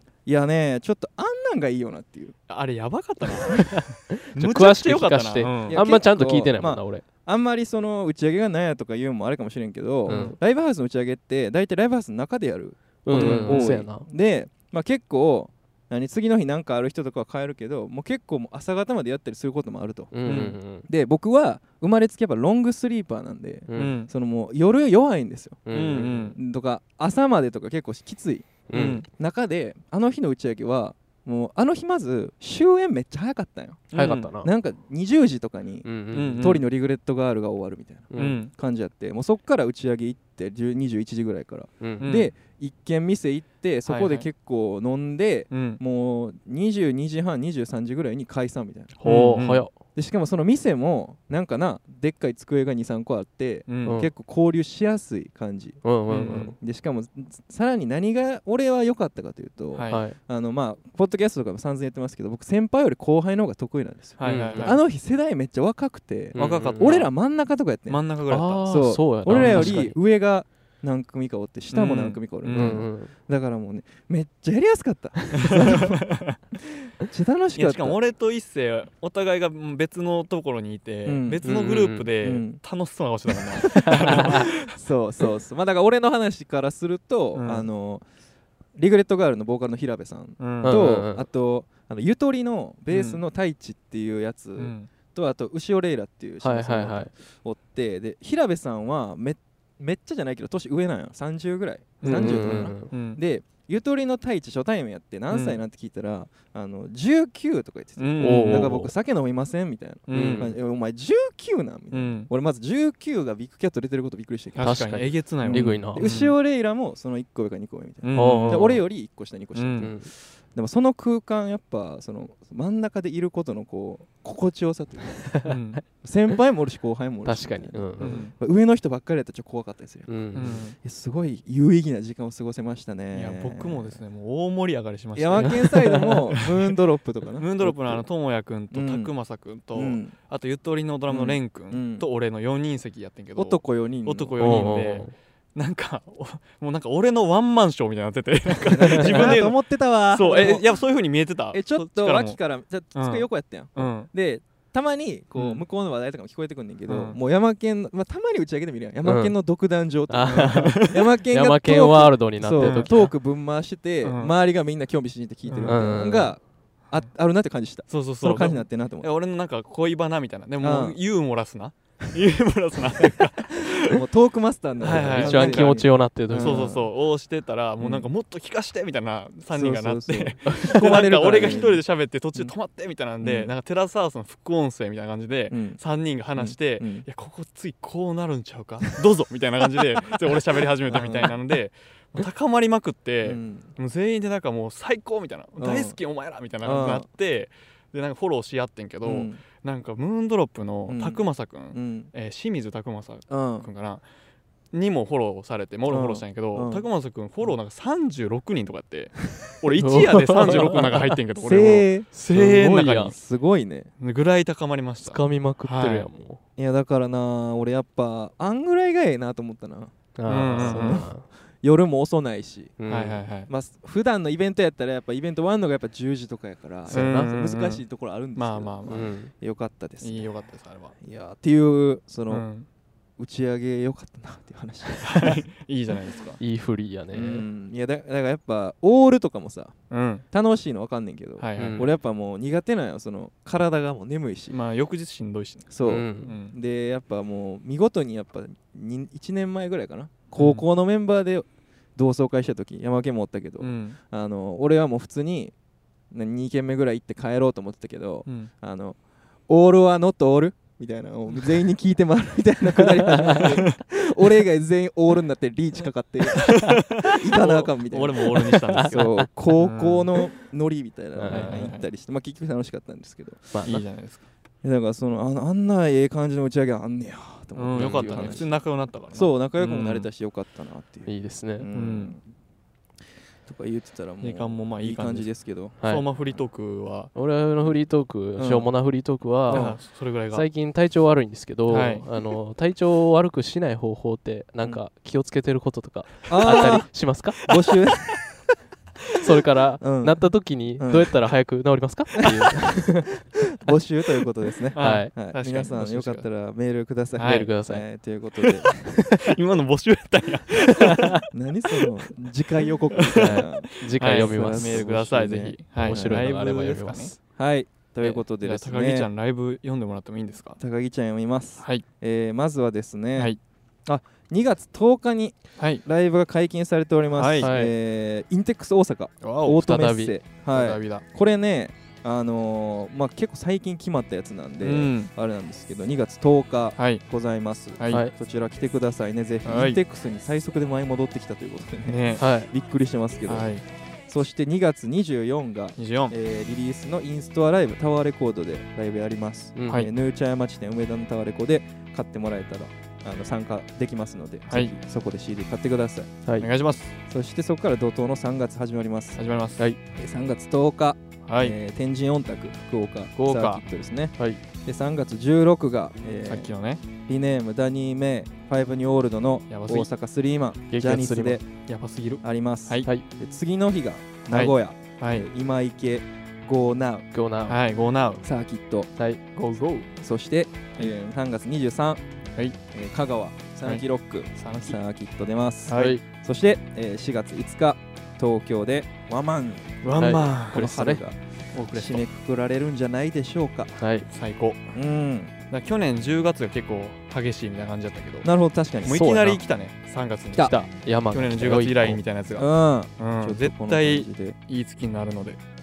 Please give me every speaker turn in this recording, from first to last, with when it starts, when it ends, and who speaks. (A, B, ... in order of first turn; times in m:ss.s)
0:00.2-0:02.3 A
0:02.5-0:05.8 B
0:03.7-0:07.0 C
0:05.7-0:25.6 A
0:10.0-0:10.4 B
0:10.1-0:10.4 C
0:13.0-0:14.1 C
0:13.1-0:13.8 B
0:20.1-0:20.9 C
0:20.2-0:20.6 B
0:23.7-0:24.0 C
0:23.7-0:24.1 B
0:25.6-0:26.3 C
0:25.7-0:26.4 B
0:26.4-0:49.0 A
0:28.7-0:29.0 C
0:28.7-0:29.0 B
0:33.9-0:34.3 B
0:33.9-0:34.5 C
0:35.8-0:36.6 C
0:36.1-0:36.7 B
0:38.1-0:38.4 C
0:38.1-0:38.5 B
0:41.8-0:42.1 C
0:42.0-0:42.3 B
0:43.8-0:44.3 B
0:45.5-0:45.8 B
0:49.0-0:49.7 B
0:49.0-0:49.7 C
0:49.9-0:55.8 A
0:53.7-0:54.0 B
0:53.8-0:54.1 C
0:55.8-0:56.6 C
0:56.1-0:56.5 B
0:56.6-1:08.0 A
0:59.7-1:00.0 B
0:59.9-1:00.2 C
1:04.2-1:04.8 B
1:04.2-1:04.8 C
1:06.3-1:07.0 C
1:06.4-1:07.1 B
1:07.9-1:08.7 B
1:08.3-1:10.0 C
1:08.6-1:16.0 A
1:09.2-1:09.8 B
1:11.7-1:12.8 B
1:12.5-1:13.1 C
1:15.3-1:16.4 B
1:17.0-1:18.0 A
1:17.6-1:24.7 B
1:21.0-1:21.4 A
1:21.4-1:22.1 C
1:22.2-1:22.6 A
1:23.6-1:24.4 C
1:24.1-1:28.0 A
1:27.3-1:27.7 B
1:28.8-2:05.4 A
1:30.4-1:30.8 B
1:30.6-1:31.2 C
1:32.9-1:33.2 B
1:34.6-1:34.9 B
1:36.4-1:37.1 C
1:42.0-1:43.2 B
1:42.0-1:42.9 C
1:45.3-1:45.6 B
1:48.0-1:48.8 B
1:48.2-1:48.9 C
1:50.1-1:50.6 B
1:50.1-1:50.5 C
1:51.9-1:52.3 B
1:54.5-1:56.3 B
1:54.6-1:56.1 C
1:58.0-1:58.8 B
1:58.1-1:58.8 C
1:59.5-1:59.9 B
1:59.8-2:00.1 C
2:05.4-2:05.8 B
2:06.0-2:14.0 A
2:07.2-2:08.2 C
2:08.0-2:08.3 B
2:10.1-2:10.6 C
2:10.3-2:10.8 B
2:13.1-2:16.7 B
2:15.2-2:18.0 A
2:15.4-2:16.2 C
2:17.4-2:29.6 B
2:18.7-2:19.1 A
2:19.7-2:20.1 A
2:21.1-2:22.0 A
2:23.4-2:24.8 A
2:24.4-2:25.1 C
2:28.7-2:30.7 A
2:29.0-2:29.4 C
2:30.1-2:32.4 B
2:31.5-2:49.1 A
2:32.9-2:34.1 B
2:35.3-2:35.6 B
2:36.9-2:37.2 B
2:39.0-2:39.3 C
2:40.1-2:43.1 C
2:40.3-2:41.0 B
2:42.6-2:43.1 B
2:44.0-2:44.3 B
2:45.5-2:45.9 B
2:45.6-2:46.3 C
2:47.9-2:54.0 B
2:50.6-2:51.0 A
2:53.6-2:56.9 A
2:54.8-2:55.8 B
2:54.9-2:56.7 C
2:56.4-3:24.0 B
2:57.8-2:58.0 A
2:59.5-3:01.8 A
3:00.5-3:00.8 C
3:03.2-3:03.5 A
3:05.5-3:05.8 A
3:06.4-3:07.0 A
3:10.9-3:11.4 A
3:13.2-3:13.7 A
3:15.6-3:16.0 A
3:16.6-3:17.0 A
3:19.0-3:19.4 A
3:20.9-3:21.2 A
3:21.7-3:22.1 A
3:23.3-3:23.7 A
3:24.7-3:33.2 B
3:25.9-3:26.9 A
3:29.7-3:31.2 C
3:30.5-3:32.1 A
3:32.1-3:33.1 C
3:33.1-3:33.9 A
3:34.0-3:36.1 B
3:35.0-3:36.4 C
3:36.6-3:41.1 A
3:40.2-3:41.2 C
3:40.3-3:41.0 B
3:41.6-3:42.7 A
3:42.8-3:43.2 C
3:42.9-3:43.5 B
3:43.5-3:50.3 A
3:46.9-3:47.8 B
3:46.9-3:47.3 C
3:48.4-3:49.1 B
3:48.9-3:49.3 C
3:50.0-3:51.0 B
3:51.0-3:52.4 A
3:52.3-3:52.7 B
3:53.2-3:55.4 A
3:55.0-3:56.4 B
3:56.4-3:57.4 C
3:57.1-3:59.7 A
3:59.9-4:00.2 B
4:00.3-4:04.6 A
4:01.4-4:01.9 B
4:01.5-4:01.9 C
4:04.5-4:06.6 B
4:05.7-4:15.5 A
4:05.8-4:06.4 C
4:10.4-4:10.6 B
4:13.6-4:14.0 B
4:16.1-4:19.0 A
4:18.2-4:18.5 B
4:19.5-4:33.5 A
4:22.9-4:23.6 C
4:23.2-4:23.8 B
4:26.4-4:30.2 B
4:26.4-4:27.0 C
4:28.2-4:29.3 C
4:31.1-4:31.8 C
4:31.3-4:31.8 B
4:33.5-4:33.8 C
4:33.6-4:34.2 B
4:34.6-4:38.5 A
4:37.6-4:40.1 B
4:37.7-4:38.4 C
4:39.1-4:42.2 A
4:41.0-4:41.7 C
4:41.7-4:42.2 B
4:43.4-4:45.8 A
4:44.2-4:47.1 B
4:45.8-4:46.0 C
4:47.1-4:57.4 C
4:48.4-4:48.7 A
4:49.5-4:50.4 B
4:49.5-4:49.8 A
4:51.7-4:52.1 B
4:56.3-4:58.4 A
4:59.2-5:03.1 C
4:59.8-5:01.1 A
5:03.5-5:08.9 A
5:04.7-5:06.2 B
5:04.8-5:05.1 C
5:07.2-5:07.5 B
5:07.2-5:07.8 C
5:09.2-5:11.2 B
5:10.8-5:11.2 C
5:11.3-5:16.3 A
5:12.9-5:17.1 B
5:13.1-5:17.2 C
5:17.4-5:19.1 A
5:18.0-5:20.6 B
5:20.6-5:23.3 A
5:23.8-5:43.5 A
5:25.6-5:25.8 B
5:27.2-5:27.5 B
5:27.4-5:27.7 C
5:29.2-5:29.8 B
5:29.5-5:30.1 C
5:30.4-5:31.0 B
5:34.6-5:35.1 B
5:36.8-5:37.0 B
5:37.8-5:38.0 B
5:39.4-5:39.8 B
5:41.8-5:42.3 B
5:42.2-5:42.5 C
5:43.3-5:43.6 B
5:44.1-5:56.1 A
5:45.8-5:46.1 B
5:49.5-5:49.9 C
5:56.4-5:57.0 B
5:57.1-5:59.2 A
5:59.2-5:59.6 B
5:59.9-6:06.5 A
6:01.2-6:01.6 B
6:03.2-6:03.6 B
6:06.2-6:06.8 B
6:07.0-6:11.4 A
6:09.5-6:09.9 B
6:10.7-6:11.4 C
6:11.6-6:12.9 B
6:12.2-6:17.0 A
6:14.3-6:15.3 B
6:17.1-6:17.6 C
6:17.5-6:18.2 B
6:18.2-6:18.9 A
6:19.3-6:19.9 B
6:20.0-6:22.0 A
6:22.7-6:31.2 A
6:24.3-6:24.8 B
6:25.7-6:26.0 B
6:25.7-6:26.0 C
6:29.8-6:30.7 B
6:30.0-6:31.0 C
6:31.5-6:32.0 B
6:31.7-6:33.8 A
6:33.8-6:34.1 C
6:34.1-6:34.6 B
6:34.7-6:35.3 A
6:35.5-6:38.3 B
6:38.2-6:39.0 A
6:38.8-6:45.4 B
6:38.9-6:39.4 C
6:40.4-6:42.0 C
6:42.4-6:44.4 A